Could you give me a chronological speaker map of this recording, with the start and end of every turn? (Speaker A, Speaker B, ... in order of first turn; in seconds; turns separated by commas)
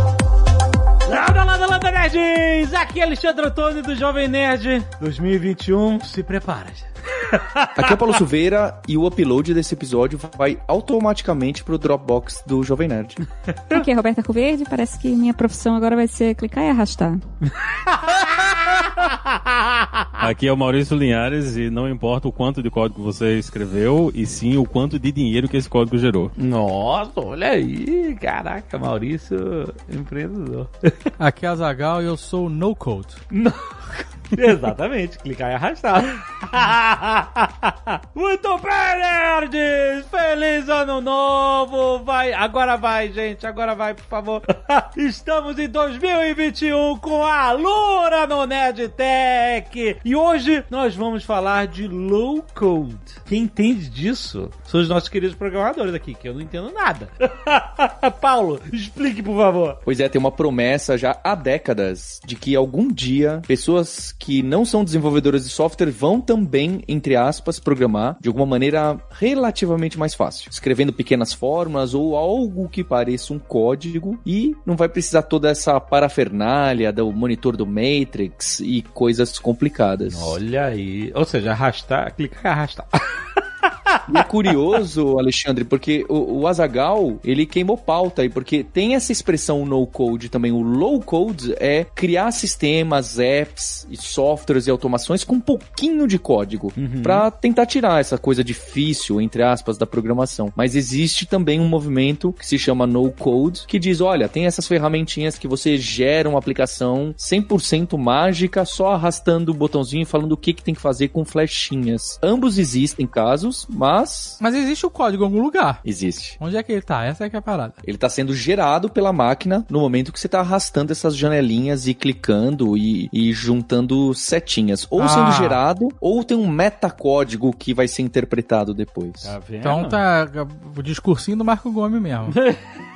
Speaker A: 1.1-7.9, Speaker B: 7.7-13.2, Speaker A: 13.5-13.8, Speaker C: 13.7-17.2, Speaker A: 17.7-20.2, Speaker D: 20.2-26.3, Speaker A: 26.4-31.1, Speaker E: 31.2-33.2, Speaker A: 33.3-59.8, Speaker B: 59.8-80.4, Speaker A: 80.1-84.0, Speaker B: 84.1-114.4, Speaker A: 96.8-97.2, Speaker E: 114.4-115.8, Speaker B: 115.8-116.4, Speaker E: 116.4-117.8, Speaker B: 117.8-129.4, Speaker E: 125.0-125.6, Speaker A: 129.2-130.0, Speaker E: 129.6-132.4